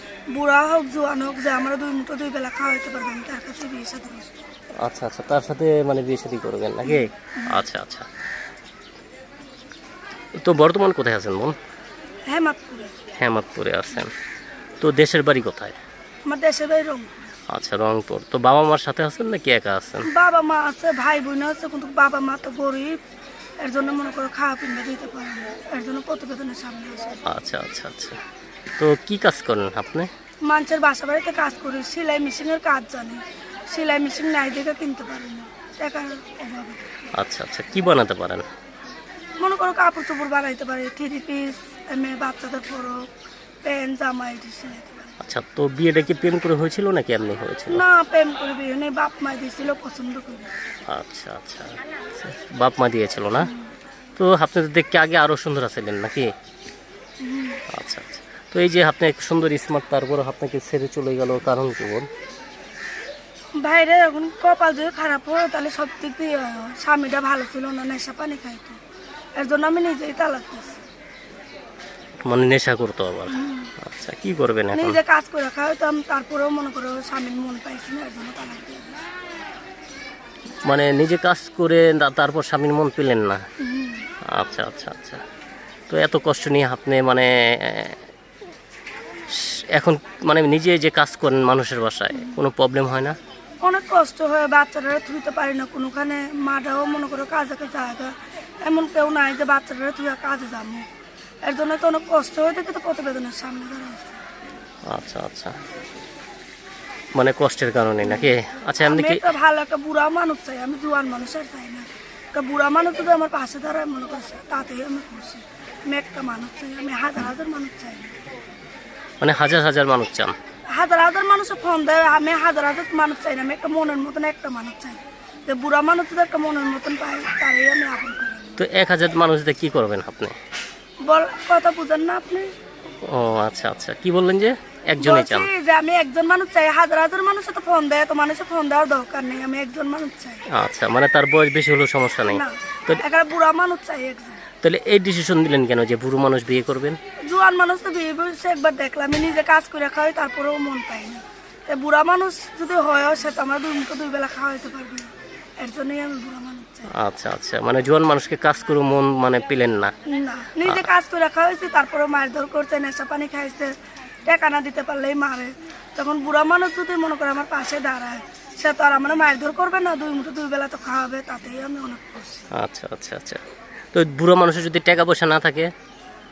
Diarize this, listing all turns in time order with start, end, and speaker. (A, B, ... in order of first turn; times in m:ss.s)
0:00.3-0:04.5 A
0:04.8-0:08.1 B
0:06.8-0:07.6 A
0:10.4-0:11.6 B
0:12.3-0:12.9 A
0:13.1-0:14.1 B
0:14.8-0:15.8 B
0:16.2-0:17.1 A
0:17.5-0:20.1 B
0:20.0-0:23.0 A
0:23.6-0:27.2 A
0:27.2-0:28.2 B
0:28.8-0:30.1 B
0:30.4-0:36.9 A
0:37.1-0:38.5 B
0:39.4-0:43.1 A
0:43.6-0:45.1 A
0:45.2-0:47.8 B
0:47.7-0:50.5 A
0:50.9-0:53.5 B
0:53.4-0:53.7 A
0:54.2-0:56.3 B
0:57.2-0:57.6 A
0:57.7-1:02.1 B
1:03.6-1:08.8 A
1:09.4-1:10.8 A
1:12.2-1:15.0 B
1:13.3-1:13.7 A
1:14.7-1:19.1 A
1:20.6-1:23.4 B
1:23.6-1:24.1 A
1:24.2-1:25.2 B
1:25.9-1:28.0 B
1:29.3-1:33.2 B
1:33.6-1:40.9 A
1:41.4-1:44.2 A
1:44.8-1:45.6 B
1:47.1-1:49.3 B
1:48.0-1:58.2 A
1:59.2-2:00.3 B
2:00.7-2:08.6 A
2:08.6-2:10.4 B
2:11.0-2:12.5 A
2:13.0-2:15.5 B
2:15.0-2:20.4 A
2:20.5-2:23.0 B
2:22.3-2:24.4 A
2:24.6-2:27.0 B
2:27.2-2:36.9 A
2:36.9-2:39.9 B
2:40.0-2:43.7 A
2:44.2-2:52.4 A
2:52.5-2:53.4 B
2:53.9-2:55.7 B